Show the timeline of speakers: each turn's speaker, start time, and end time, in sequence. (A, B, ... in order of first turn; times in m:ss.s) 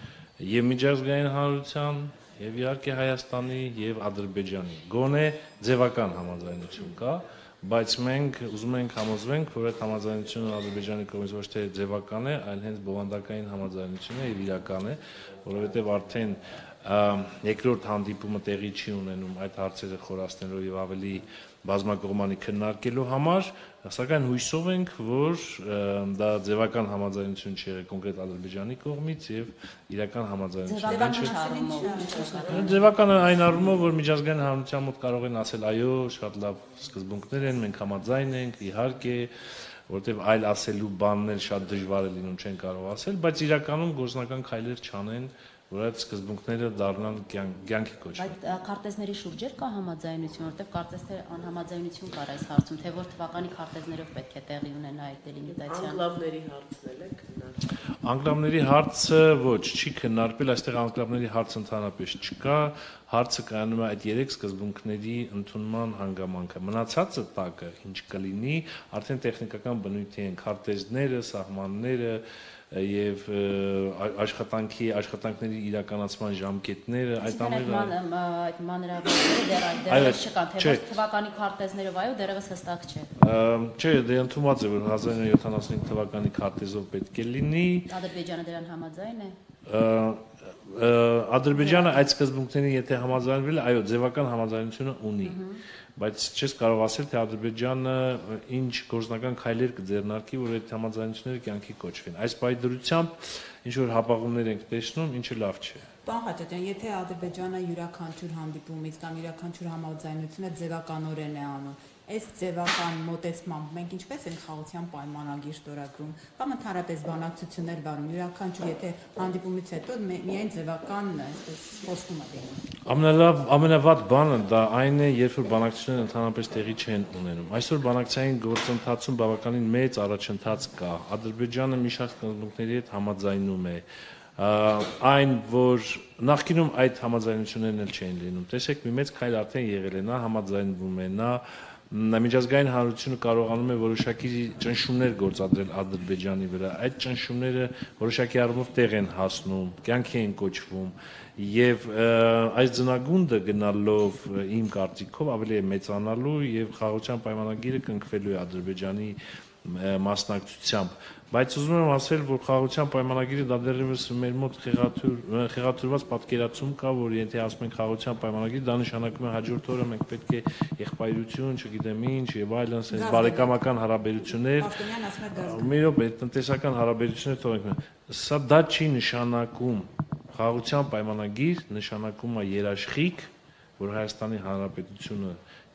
0:00.4-0:31.4 A
0:30.7-0:32.9 B
0:30.8-0:32.7 C
0:32.3-0:39.3 A
0:39.9-0:48.4 A
0:48.2-0:56.0 B
0:55.6-0:57.6 D
0:58.0-1:17.9 A
1:17.2-1:23.1 B
1:19.9-1:20.9 A
1:23.2-1:27.9 A
1:27.9-1:29.4 B
1:29.7-1:35.4 A
1:31.6-1:32.1 B
1:35.2-1:35.6 B
1:36.0-1:45.9 A
1:46.0-2:02.6 C
2:02.9-2:13.8 A
2:14.4-2:54.7 A
2:52.9-2:53.6 C
2:54.4-2:55.8 C
2:55.4-3:05.4 A